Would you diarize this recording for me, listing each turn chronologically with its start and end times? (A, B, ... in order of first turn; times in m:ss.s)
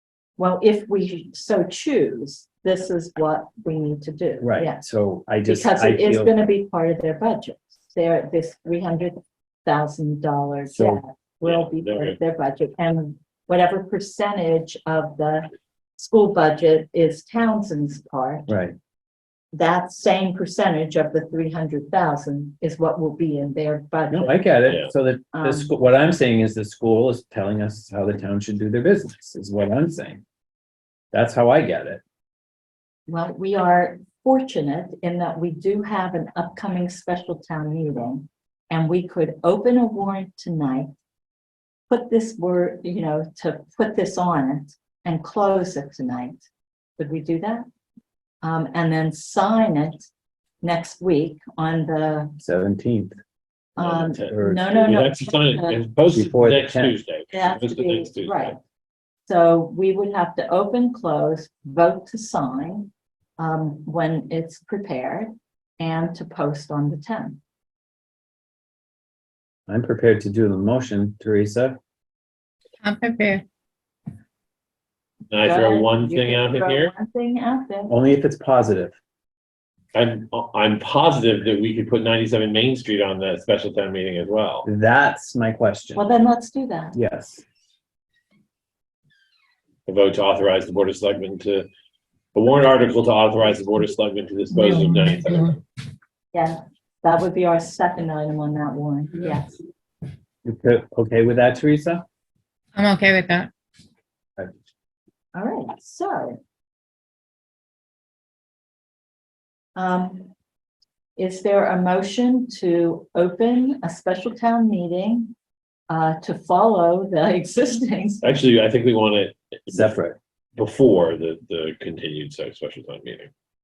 0:00.4-0:04.8 A
0:04.4-0:06.4 B
0:05.5-0:18.5 A
0:10.7-0:11.0 B
0:11.4-0:12.2 C
0:18.5-0:18.8 B
0:19.5-0:24.4 A
0:24.1-0:30.2 B
0:25.3-0:25.7 A
0:31.1-0:32.0 B
0:33.1-0:40.9 A
0:41.9-0:46.5 A
0:47.0-0:47.7 A
0:48.4-0:50.1 A
0:50.6-0:52.4 A
0:52.4-0:53.2 B
0:53.8-0:55.8 A
0:53.8-0:58.6 C
0:54.3-0:54.8 B
0:56.1-0:56.9 B
0:57.3-0:58.6 A
0:59.3-1:07.4 A
1:09.7-1:11.8 B
1:12.8-1:13.4 D
1:15.3-1:16.9 C
1:15.4-1:17.9 A
1:17.9-1:19.0 B
1:19.9-1:24.7 C
1:24.6-1:26.1 B
1:26.0-1:27.0 A
1:26.9-1:27.4 B
1:29.9-1:31.7 C
1:32.4-1:35.6 C
1:34.8-1:35.3 D
1:36.3-1:39.6 A
1:40.4-1:42.0 B
1:42.8-1:43.5 D
1:45.4-1:46.4 A
1:49.8-1:50.3 A
1:51.2-1:55.3 A
1:55.9-1:58.3 A
1:58.2-2:00.0 C
1:59.7-2:00.2 B
2:00.6-2:03.3 C